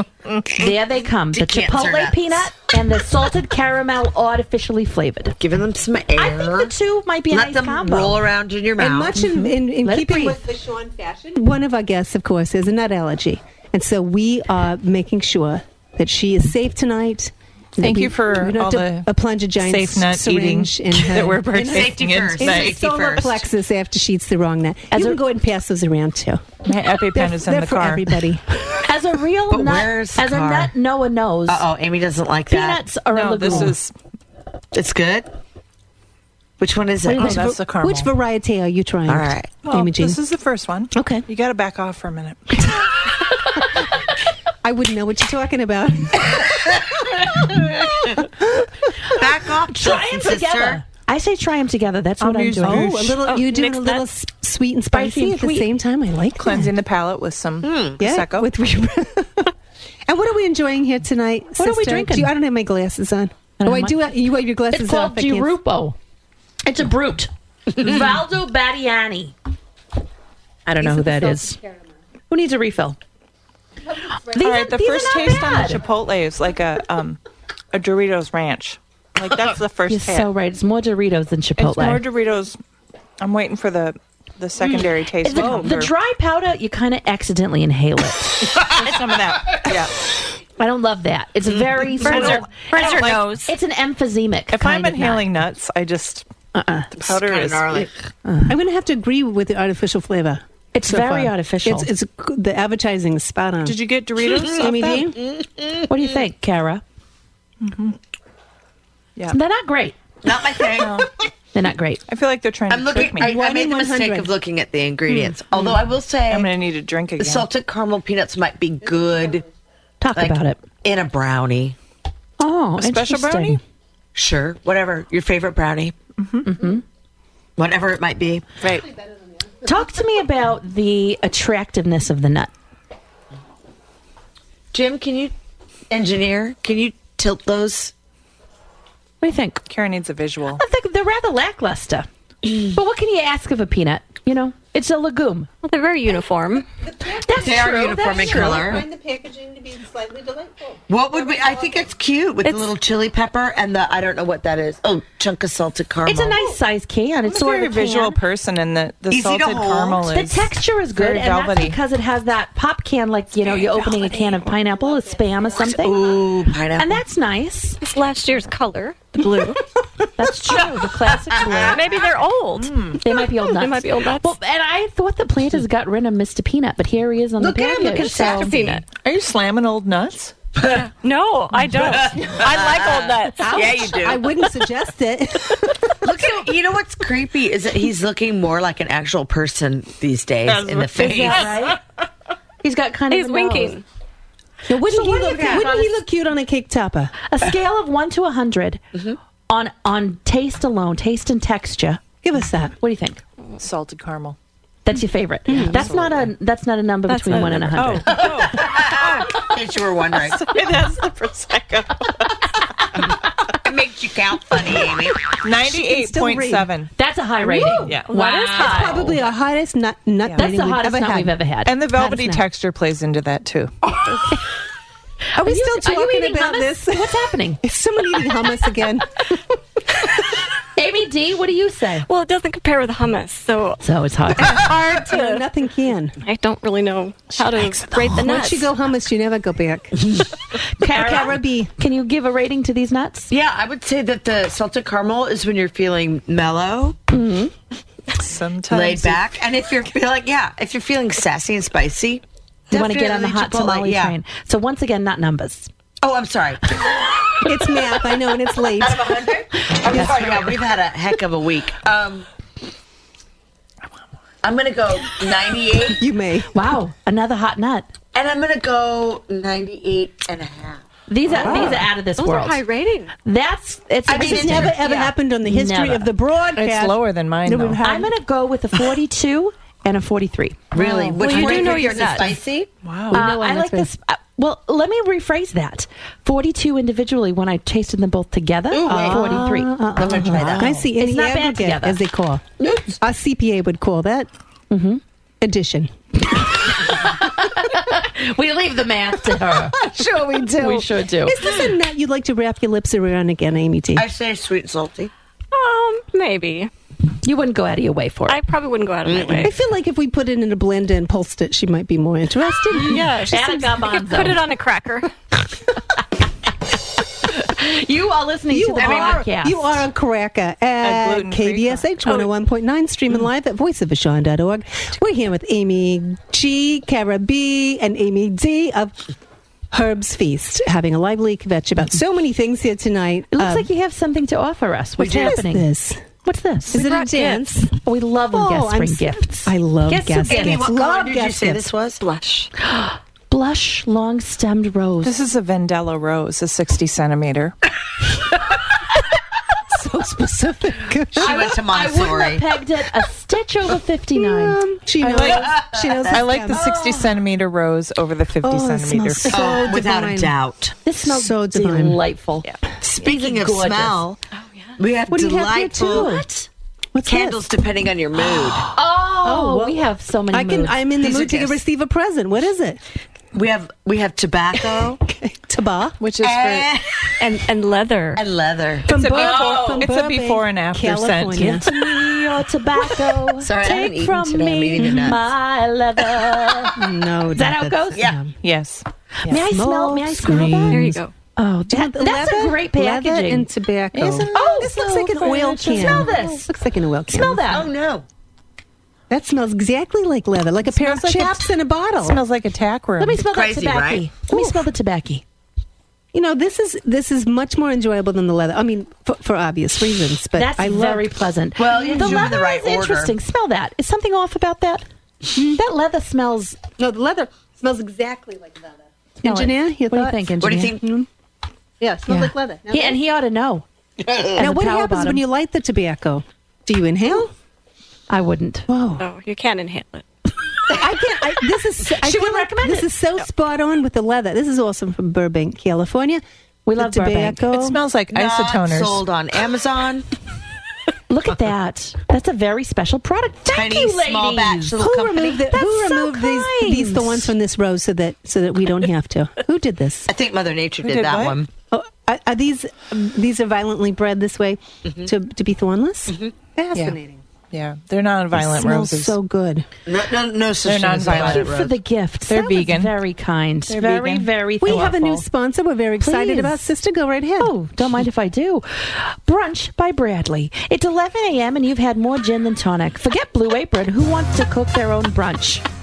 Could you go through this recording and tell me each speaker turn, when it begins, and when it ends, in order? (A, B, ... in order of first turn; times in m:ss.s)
0:00.4-0:05.4 A
0:01.3-0:02.5 B
0:05.4-0:06.7 B
0:06.2-0:08.3 A
0:07.3-0:09.2 B
0:08.8-0:28.5 C
0:09.8-0:10.4 A
0:17.8-0:23.3 D
0:21.6-0:23.4 B
0:24.9-0:25.2 A
0:26.6-0:28.2 D
0:28.8-0:31.6 A
0:29.5-0:30.7 B
0:31.5-0:32.8 B
0:32.5-0:33.8 A
0:33.1-0:33.9 D
0:34.7-0:35.3 B
0:36.6-0:37.4 B
0:37.1-0:40.2 C
0:37.1-0:38.1 D
0:39.1-0:39.5 B
0:39.6-0:43.0 D
0:40.9-0:41.2 C
0:44.6-0:49.2 C
0:49.1-0:50.8 B
0:49.6-0:53.0 A
0:52.2-0:53.2 D
0:52.6-0:56.7 C
0:53.2-0:54.0 E
0:54.9-0:55.7 A
0:56.4-0:58.5 D
0:57.6-0:58.0 B
0:58.0-0:59.5 C
1:00.1-1:05.5 C
1:01.6-1:02.3 A
1:03.6-1:04.1 A
1:04.7-1:06.0 A
1:06.6-1:09.3 A
1:10.6-1:11.6 A
1:10.9-1:11.4 C
1:12.3-1:13.0 A
1:14.2-1:15.8 A
1:14.3-1:17.2 D
1:17.7-1:20.3 D
1:19.9-1:22.0 A
1:21.6-1:22.6 D
1:23.2-1:25.9 D
1:25.2-1:28.5 A
1:28.5-1:28.8 B
1:28.8-1:29.9 D
1:28.8-1:29.6 E
1:30.6-1:35.3 A
1:32.0-1:33.5 E
1:32.1-1:33.2 D
1:34.5-1:36.2 D
1:36.9-1:37.9 D
1:37.0-1:37.9 B
1:38.2-1:38.5 A
1:38.4-1:43.8 C
1:40.7-1:41.9 A
1:43.6-1:45.1 D
1:44.3-1:45.9 B
1:44.5-1:45.2 C
1:45.9-1:46.8 A
1:47.6-1:48.0 D
1:49.3-1:50.0 A
1:50.2-1:51.1 B
1:50.8-1:51.1 D
1:51.5-1:52.0 A
1:52.1-1:53.3 D
1:52.7-1:56.5 B
1:53.2-1:54.3 C
1:56.3-1:57.5 D
1:57.2-1:59.5 B
2:00.0-2:00.6 A
2:00.1-2:01.8 B
2:02.4-2:03.6 A
2:02.8-2:03.6 D
2:04.1-2:06.0 B
2:06.2-2:06.5 D
2:06.4-2:06.8 A
2:07.6-2:08.6 B
2:08.6-2:08.9 D
2:09.6-2:12.5 A
2:14.7-2:15.3 B
2:15.9-2:17.9 B
2:19.2-2:19.6 A
2:19.7-2:20.6 D
2:20.6-2:25.5 A
2:25.6-2:26.6 E
2:27.0-2:31.8 C
2:27.1-2:28.8 A
2:27.3-2:28.8 B
2:30.9-2:36.4 B
2:36.0-2:38.2 A
2:37.3-2:41.8 D
2:39.1-2:40.0 B
2:40.1-2:46.2 A
2:45.6-2:47.0 B
2:46.8-2:47.8 A
2:47.8-2:49.6 E
2:50.2-2:51.9 A
2:51.2-2:51.8 B
2:51.7-2:54.4 E
2:52.6-2:53.0 D
2:53.0-2:58.8 A
2:57.4-2:58.6 B
2:57.8-2:58.8 E
2:59.0-3:00.3 D
3:00.6-3:00.9 B
3:00.6-3:03.7 E
3:01.5-3:02.4 D
3:02.0-3:04.3 B
3:03.4-3:06.2 C
3:06.0-3:11.7 B
3:10.4-3:11.5 D
3:10.9-3:11.8 A
3:12.6-3:13.8 A
3:13.1-3:13.8 E
3:14.7-3:17.1 C
3:14.8-3:16.0 A
3:15.3-3:15.6 B
3:17.3-3:22.0 A
3:22.2-3:22.7 C
3:22.8-3:23.2 A
3:23.6-3:24.4 D
3:24.8-3:28.1 A
3:25.5-3:25.9 C
3:25.6-3:26.3 D
3:27.1-3:28.5 E
3:27.8-3:29.3 D
3:28.1-3:30.5 B
3:30.1-3:33.1 D
3:33.6-3:35.2 B
3:35.3-3:36.9 D
3:35.5-3:36.7 C
3:37.0-3:39.1 A
3:37.4-3:38.0 C
3:37.8-3:38.1 D
3:38.0-3:39.2 E
3:38.6-3:41.4 C
3:40.4-3:41.7 A
3:41.6-3:43.8 D
3:41.9-3:42.4 C
3:45.3-3:49.6 C
3:45.4-3:47.6 A
3:50.8-3:52.1 A
3:52.0-3:53.8 E
3:53.8-3:54.7 A
3:54.4-3:56.2 C
3:54.4-3:55.5 E
3:56.2-3:58.7 E
3:58.1-4:00.2 C
4:00.8-4:03.3 A
4:00.8-4:01.7 C
4:03.3-4:07.1 B
4:07.1-4:07.5 A
4:08.1-4:09.2 D
4:08.7-4:14.2 B
4:12.7-4:15.7 A
4:16.0-4:16.9 B
4:17.4-4:19.1 C
4:18.8-4:22.3 B
4:19.8-4:20.6 A
4:24.4-4:26.0 B
4:26.0-4:26.5 C
4:26.5-4:27.9 A
4:28.1-4:30.8 B
4:31.1-4:32.6 A
4:31.4-4:31.9 C
4:31.4-4:31.6 E
4:32.2-4:33.1 E
4:33.2-4:34.9 A
4:34.1-4:35.1 B
4:34.1-4:38.1 C
4:35.4-4:36.1 A
4:36.6-4:37.8 D
4:37.8-4:40.7 A
4:40.7-4:42.7 B
4:40.8-4:41.6 D
4:41.2-4:42.4 E
4:41.3-4:42.1 C
4:42.8-4:43.2 D
4:43.1-4:43.9 C
4:43.1-4:49.9 A
4:48.7-4:49.4 B
4:48.8-4:54.3 C
4:49.9-4:50.7 B
4:50.4-4:50.8 D
4:50.4-4:52.0 A
4:52.6-4:52.9 B
4:54.7-4:55.0 A
4:55.4-4:55.9 C
4:56.6-4:59.8 A
4:59.9-5:04.1 C
4:59.9-5:00.5 B
5:00.5-5:01.6 A
5:04.0-5:05.1 B
5:05.5-5:06.7 E
5:07.2-5:08.4 A
5:08.3-5:09.6 E
5:09.1-5:09.5 B
5:09.4-5:13.8 C
5:12.7-5:15.1 E
5:13.2-5:14.5 A
5:17.2-5:19.8 A
5:18.5-5:29.1 C
5:18.8-5:19.2 B
5:20.8-5:21.9 D
5:29.7-5:33.7 C
5:33.3-5:35.7 A
5:35.0-5:36.0 C
5:36.2-5:36.8 A
5:36.7-5:37.7 C
5:36.7-5:37.6 E
5:37.8-5:39.5 A
5:38.3-5:41.6 C
5:39.9-5:40.6 E
5:40.1-5:42.1 B
5:42.0-5:42.5 E
5:42.6-5:45.2 A
5:45.0-5:47.6 D
5:49.7-5:51.5 C
5:51.1-5:52.4 B
5:51.2-5:55.2 A
5:54.1-5:56.8 C
5:55.0-5:55.5 D
5:55.2-5:57.0 B
5:56.1-5:59.6 D
5:58.4-6:00.4 C
5:59.2-6:00.7 B
6:00.8-6:04.0 A
6:01.0-6:02.0 C
6:02.8-6:04.2 B
6:04.4-6:04.8 E
6:04.8-6:06.2 B
6:05.1-6:06.2 C
6:05.8-6:06.5 A
6:06.9-6:07.4 C
6:07.0-6:08.7 B
6:08.7-6:10.8 A
6:09.2-6:12.8 C
6:11.0-6:11.6 B
6:13.3-6:15.0 B
6:14.8-6:16.0 C
6:16.0-6:16.7 D
6:16.2-6:17.1 B
6:17.2-6:18.2 E
6:18.2-6:18.9 B
6:18.8-6:21.8 C
6:18.9-6:19.8 A
6:18.9-6:21.6 D
6:21.3-6:28.1 A
6:23.4-6:25.3 B
6:24.8-6:25.2 C
6:26.7-6:28.3 C
6:28.4-6:29.4 D
6:29.2-6:33.5 A
6:29.4-6:31.0 C
6:30.7-6:31.1 E
6:31.7-6:37.5 C
6:33.9-6:35.2 D
6:34.3-6:36.5 A
6:37.1-6:37.7 A
6:37.4-6:38.0 B
6:39.1-6:42.2 C
6:40.6-6:41.5 D
6:42.0-6:43.2 D
6:43.0-6:45.2 A
6:43.2-6:44.1 B
6:44.3-6:44.6 C
6:46.1-6:51.1 C
6:50.3-6:54.8 A
6:51.6-6:53.2 B
6:51.7-6:52.3 C
6:55.4-6:56.6 A
6:56.8-7:01.1 C
6:59.2-7:00.8 A
7:00.4-7:00.8 B
7:01.8-7:03.0 C
7:02.1-7:03.6 A
7:04.2-7:05.2 A
7:04.4-7:07.3 C
7:08.1-7:08.7 A
7:08.7-7:09.0 C
7:09.0-7:10.3 E
7:10.7-7:16.2 C
7:11.9-7:12.9 A
7:16.6-7:17.5 A
7:16.7-7:17.8 C
7:17.5-7:19.0 D
7:18.1-7:20.1 B
7:21.1-7:24.8 A
7:23.5-7:25.6 B
7:24.8-7:30.1 C
7:25.5-7:27.3 A
7:30.1-7:31.5 B
7:30.8-7:31.4 D
7:31.7-7:37.2 C
7:37.5-7:39.2 D
7:38.3-7:39.7 C
7:39.8-7:41.8 B
7:40.6-7:41.6 D
7:41.1-7:45.2 A
7:42.3-7:43.0 D
7:43.7-7:44.3 D
7:44.6-7:47.5 C
7:46.0-7:46.6 A
7:47.4-7:55.6 A